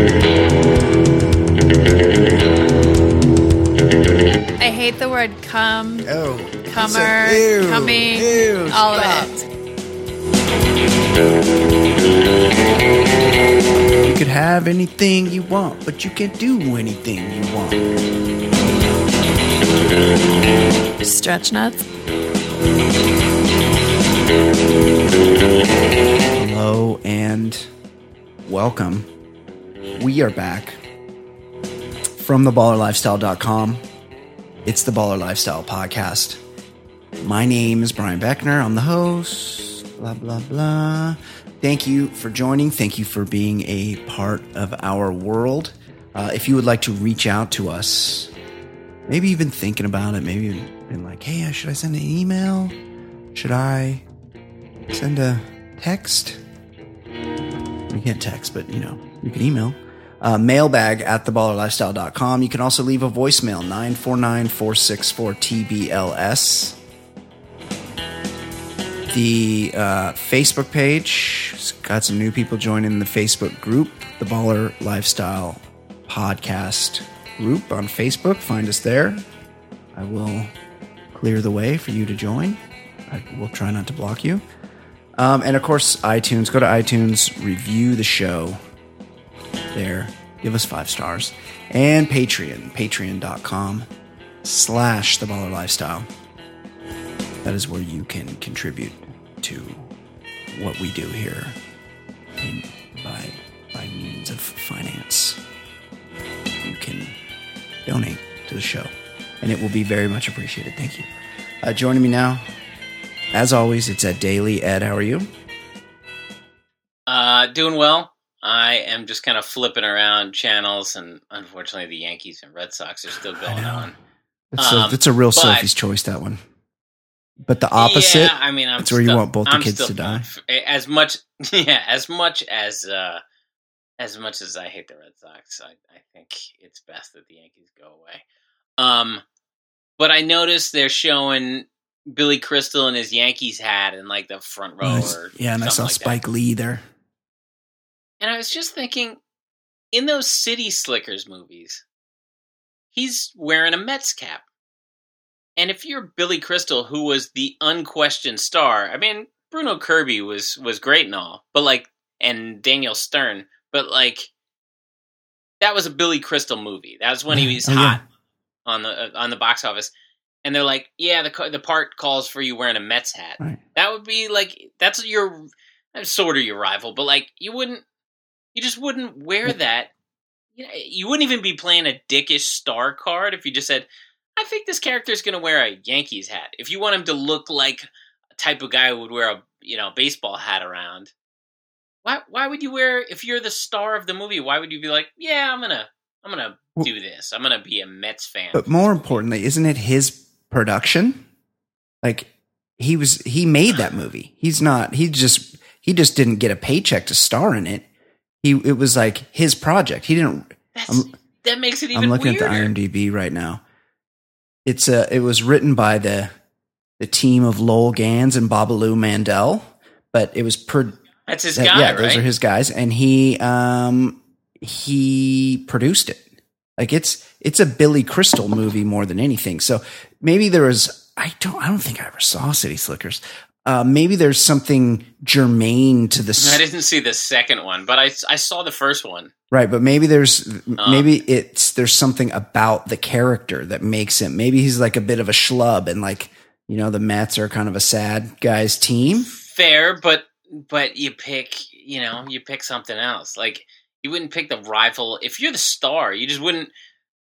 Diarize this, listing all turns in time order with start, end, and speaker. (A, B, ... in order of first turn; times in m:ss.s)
0:04.6-0:09.4 A
0:06.0-0:09.3 B
0:14.0-0:17.9 B
0:21.0-0:21.8 A
0:26.3-0:27.7 B
0:28.4-0:29.1 B
0:30.0-0:30.8 B
0:32.2-0:33.8 B
0:34.6-0:36.4 B
0:37.2-0:48.3 B
0:49.1-0:52.8 B
0:53.3-0:54.0 B
0:54.9-0:56.4 B
0:57.9-1:06.8 B
1:09.1-1:19.2 B
1:20.0-1:20.5 B
1:21.1-1:24.4 B
1:25.2-1:28.6 B
1:29.7-1:33.9 B
1:34.4-1:36.1 B
1:37.4-1:39.9 B
1:40.5-1:41.6 B
1:42.4-1:45.4 B
1:46.6-1:47.2 B
1:47.9-1:51.1 B
1:51.6-1:52.4 B
1:53.3-1:55.3 B
1:57.1-2:04.0 C
2:03.4-2:03.9 B
2:04.5-2:06.4 B
2:04.6-2:05.7 C
2:07.4-2:10.3 B
2:07.8-2:13.2 C
2:14.0-2:18.2 C
2:18.8-2:19.2 C
2:20.0-2:26.2 C
2:24.8-2:26.8 B
2:28.2-2:29.2 C
2:29.9-2:31.8 C
2:32.9-2:34.4 C
2:35.6-2:44.3 C
2:45.6-2:48.0 C
2:47.3-2:48.0 B
2:48.7-2:49.9 C
2:50.4-2:57.8 C
2:58.6-2:59.9 C
3:00.6-3:07.9 C
3:08.4-3:11.1 C
3:12.0-3:19.2 C
3:18.5-3:21.2 B
3:22.0-3:27.9 B
3:28.4-3:31.1 B
3:30.8-3:32.7 C
3:31.9-3:33.6 B
3:34.7-3:36.3 B
3:37.0-3:41.0 B
3:41.3-3:42.3 C
3:41.6-3:46.2 B
3:46.8-3:56.6 B
3:56.4-3:59.3 C
3:59.5-4:09.3 B
4:00.8-4:01.1 C
4:09.2-4:16.7 C